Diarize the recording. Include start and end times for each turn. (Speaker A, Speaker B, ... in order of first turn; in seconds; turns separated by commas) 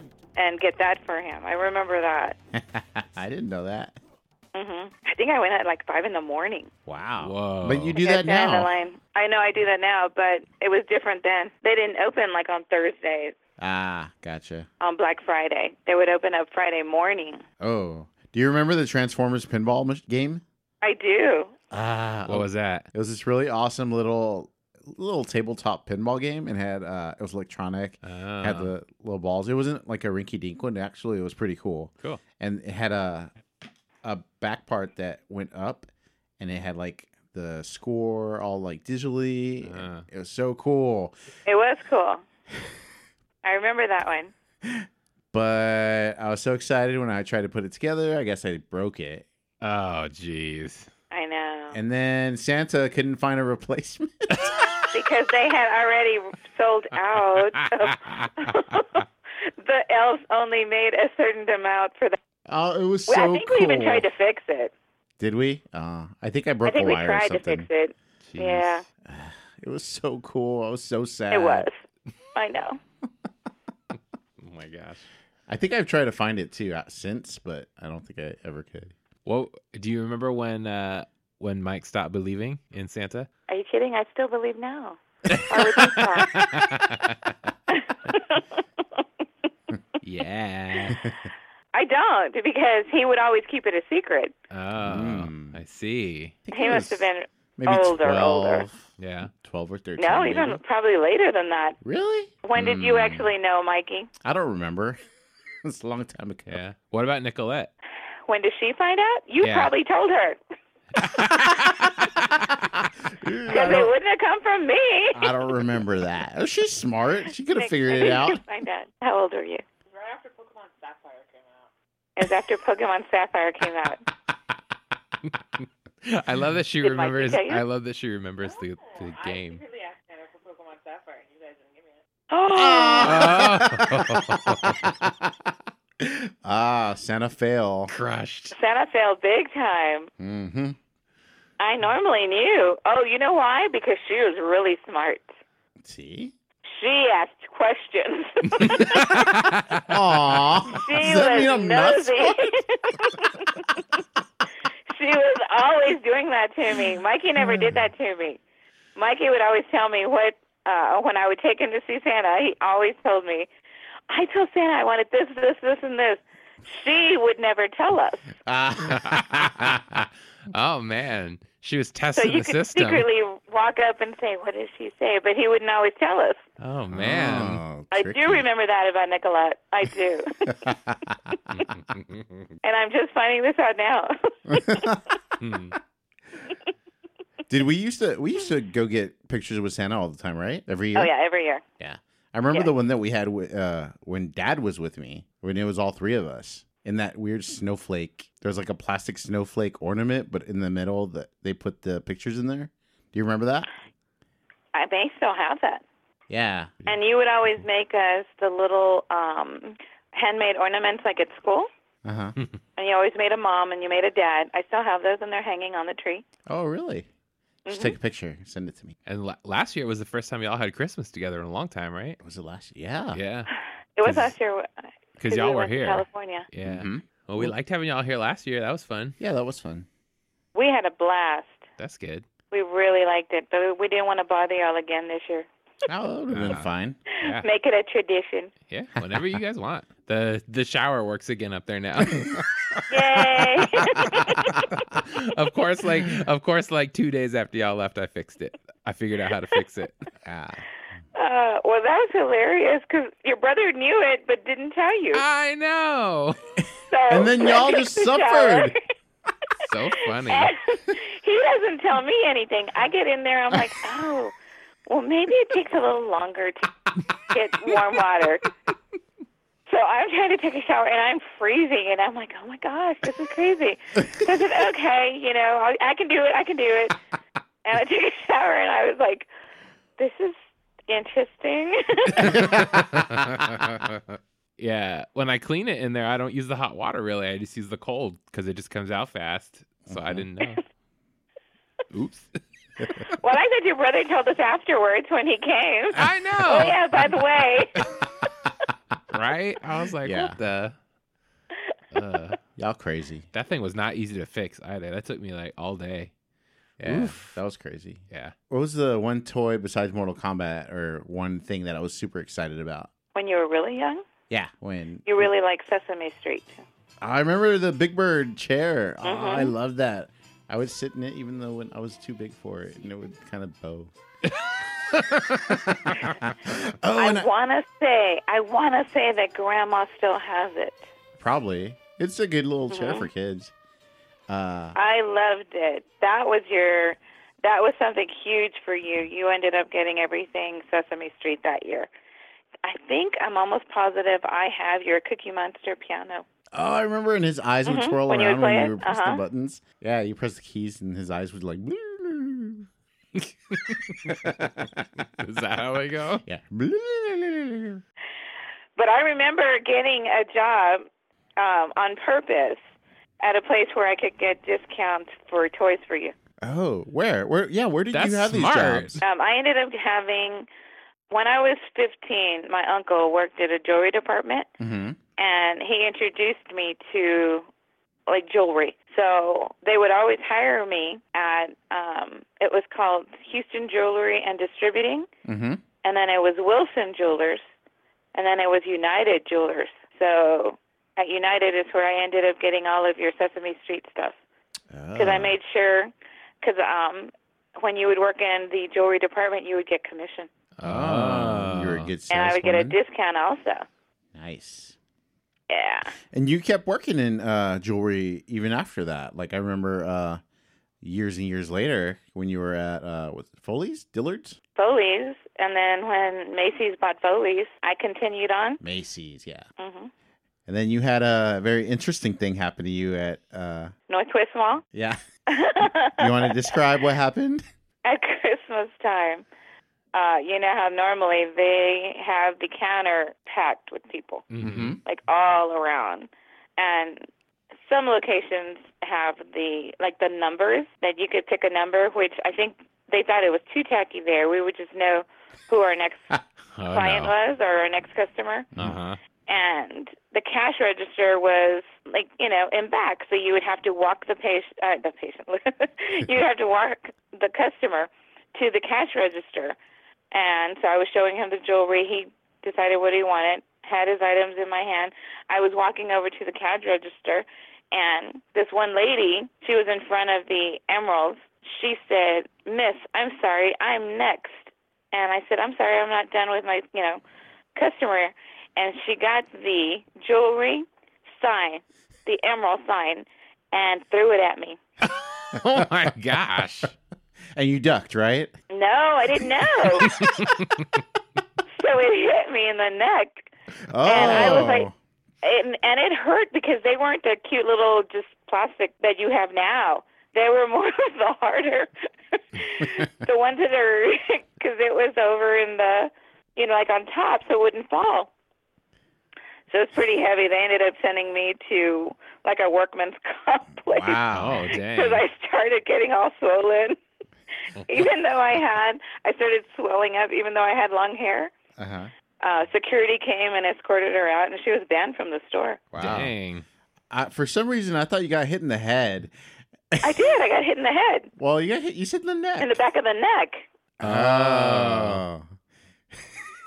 Speaker A: 0.3-2.4, Speaker B: 2.5-4.0, Speaker A: 4.5-6.7, Speaker B: 6.9-8.7, Speaker C: 7.2-8.0, Speaker A: 8.0-13.3, Speaker B: 13.6-14.7, Speaker A: 14.8-17.4, Speaker B: 17.6-20.4, Speaker A: 20.8-21.5, Speaker B: 21.7-33.3, Speaker C: 22.3-22.9, Speaker C: 28.0-28.7, Speaker B: 34.0-35.9, Speaker B: 36.4-41.1, Speaker C: 39.6-40.0, Speaker A: 41.5-42.2, Speaker A: 43.4-44.3, Speaker B: 44.6-49.2, Speaker C: 49.6-50.9, Speaker A: 51.1-51.8, Speaker B: 51.7-54.5, Speaker A: 54.9-62.2, Speaker C: 57.5-58.8, Speaker B: 62.5-64.0, Speaker A: 63.1-64.7, Speaker B: 65.2-67.7, Speaker A: 66.6-68.8, Speaker C: 68.3-68.8, Speaker B: 69.0-71.7, Speaker A: 71.3-71.8, Speaker A: 72.3-72.8, Speaker C: 74.4-75.0, Speaker B: 75.5-78.9, Speaker C: 79.2-83.3, Speaker A: 83.5-86.5, Speaker C: 85.3-87.3, Speaker A: 87.7-88.4, Speaker C: 90.0-91.0, Speaker A: 91.7-94.3, Speaker C: 94.5-96.4, Speaker B: 94.8-95.6, Speaker B: 96.5-97.1, Speaker A: 96.5-98.6, Speaker B: 97.6-100.6, Speaker C: 99.0-99.3, Speaker A: 100.0-101.8, Speaker B: 101.8-103.3, Speaker A: 102.4-104.1, Speaker B: 104.2-105.0, Speaker B: 105.6-106.6, Speaker C: 106.5-107.7, Speaker A: 108.3-110.4, Speaker C: 109.4-109.7, Speaker C: 111.0-112.2, Speaker B: 111.6-113.9, Speaker A: 113.5-115.5, Speaker B: 115.1-118.4, Speaker A: 117.5-119.6, Speaker D: 119.9-121.7, Speaker A: 122.2-124.0, Speaker C: 125.2-129.6, Speaker A: 126.8-127.6, Speaker D: 128.4-132.0, Speaker A: 132.3-133.4, Speaker B: 132.5-135.3, Speaker C: 133.0-134.9, Speaker B: 136.0-137.9, Speaker C: 137.9-138.5, Speaker A: 138.5-140.1, Speaker B: 140.2-140.8, Speaker A: 141.6-145.3, Speaker B: 145.8-146.3, Speaker A: 146.7-149.2, Speaker C: 148.8-149.9, Speaker B: 149.8-152.6, Speaker A: 150.7-153.7, Speaker A: 154.9-158.4, Speaker B: 157.4-157.8, Speaker A: 158.9-163.5, Speaker A: 164.1-168.3, Speaker B: 168.4-169.8, Speaker C: 168.9-173.1, Speaker A: 172.2-176.4, Speaker C: 176.6-177.6, Speaker B: 176.9-178.4, Speaker A: 177.9-180.5, Speaker B: 180.5-181.3, Speaker C: 181.5-182.5, Speaker A: 182.6-185.0, Speaker B: 184.5-185.0, Speaker C: 185.4-185.7, Speaker B: 187.5-191.1, Speaker A: 190.9-191.6, Speaker B: 191.8-203.7, Speaker A: 204.7-205.8, Speaker B: 206.3-206.8, Speaker A: 206.8-211.7, Speaker B: 212.0-212.4, Speaker A: 212.8-216.2, Speaker B: 216.5-217.1, Speaker A: 217.7-217.9, Speaker B: 217.7-218.9, Speaker C: 219.1-222.2, Speaker B: 222.2-223.2, Speaker C: 223.1-223.5, Speaker A: 224.0-224.7, Speaker C: 224.0-224.3, Speaker C: 225.2-229.2, Speaker A: 225.3-226.5, Speaker B: 226.6-227.5, Speaker B: 229.2-229.9, Speaker A: 230.5-231.6, Speaker C: 231.8-232.2, Speaker A: 232.5-235.5, Speaker B: 235.9-237.0, Speaker C: 236.3-236.7, Speaker A: 237.1-238.5, Speaker C: 237.2-237.4, Speaker C: 238.7-242.4, Speaker B: 242.2-242.8, Speaker A: 242.9-244.6, Speaker C: 244.9-250.1, Speaker B: 250.2-250.6, Speaker A: 251.1-255.2, Speaker C: 255.1-256.4, Speaker A: 256.9-258.8, Speaker B: 257.1-258.7, Speaker C: 259.6-260.5, Speaker A: 260.2-264.3, Speaker A: 264.9-266.7, Speaker A: 267.2-268.4, Speaker A: 269.7-277.0, Speaker A: 277.6-279.3, Speaker A: 280.0-280.4, Speaker A: 280.9-282.5, Speaker C: 282.1-290.6, Speaker B: 282.2-283.6, Speaker B: 289.9-290.2, Speaker C: 291.9-292.4, Speaker A: 293.1-297.7, Speaker C: 295.9-296.8, Speaker C: 299.1-300.8, Speaker B: 300.0-300.4, Speaker C: 301.9-302.4, Speaker B: 302.6-303.2, Speaker C: 303.3-306.1, Speaker C: 306.8-307.4, Speaker B: 306.8-312.9, Speaker A: 313.1-314.0, Speaker B: 314.3-315.3, Speaker A: 315.1-316.6, Speaker B: 317.0-323.9, Speaker A: 319.0-319.5, Speaker C: 324.9-325.6, Speaker B: 325.3-327.3, Speaker A: 327.0-330.9, Speaker B: 331.2-333.5, Speaker A: 332.7-333.1, Speaker B: 334.3-334.8, Speaker A: 334.8-341.9, Speaker A: 342.6-346.2, Speaker B: 346.5-352.7, Speaker A: 347.6-349.2, Speaker C: 353.5-354.3, Speaker B: 353.9-354.9, Speaker C: 355.2-356.2, Speaker B: 356.2-357.8, Speaker A: 358.8-360.9, Speaker A: 361.4-362.6, Speaker A: 363.2-366.1, Speaker B: 366.4-369.0, Speaker C: 367.9-369.0, Speaker A: 369.0-370.5, Speaker A: 371.1-374.5, Speaker B: 374.6-375.0, Speaker A: 375.2-377.4, Speaker A: 378.1-385.1, Speaker B: 385.2-385.6, Speaker A: 385.8-387.4, Speaker A: 388.1-394.1, Speaker B: 394.7-395.4, Speaker A: 394.9-400.3, Speaker C: 400.6-401.9, Speaker B: 400.6-402.8, Speaker A: 402.1-403.6, Speaker B: 404.1-404.8, Speaker A: 405.5-405.9, Speaker B: 406.1-410.2, Speaker B: 410.8-414.4, Speaker A: 414.6-418.6, Speaker B: 418.6-419.4, Speaker A: 419.6-419.9, Speaker B: 420.5-423.7, Speaker A: 423.9-424.6, Speaker B: 424.7-425.0, Speaker A: 425.3-426.4, Speaker B: 425.9-427.4, Speaker A: 427.8-429.2, Speaker A: 429.9-434.2, Speaker C: 434.3-434.8, Speaker B: 434.4-434.8, Speaker A: 434.8-437.1, Speaker A: 437.6-446.1, Speaker C: 446.5-447.1, Speaker A: 446.7-448.5, Speaker C: 448.6-449.0, Speaker A: 449.3-459.6, Speaker A: 460.1-477.0, Speaker A: 477.6-484.6, Speaker C: 485.3-486.7, Speaker B: 487.3-488.3, Speaker A: 488.5-490.0, Speaker C: 489.8-490.8, Speaker A: 491.6-493.3, Speaker B: 493.7-494.7, Speaker A: 493.8-494.7, Speaker C: 493.9-494.5, Speaker A: 495.2-508.1, Speaker A: 509.5-516.8, Speaker B: 513.7-514.5, Speaker C: 514.1-515.0, Speaker A: 517.6-521.3, Speaker B: 521.6-521.9, Speaker A: 522.2-525.6, Speaker B: 525.7-526.1, Speaker C: 525.8-526.4, Speaker B: 526.9-529.1, Speaker B: 529.7-530.0, Speaker A: 529.8-531.1, Speaker B: 531.2-532.6, Speaker A: 532.4-533.5, Speaker B: 533.8-535.3, Speaker C: 533.8-535.0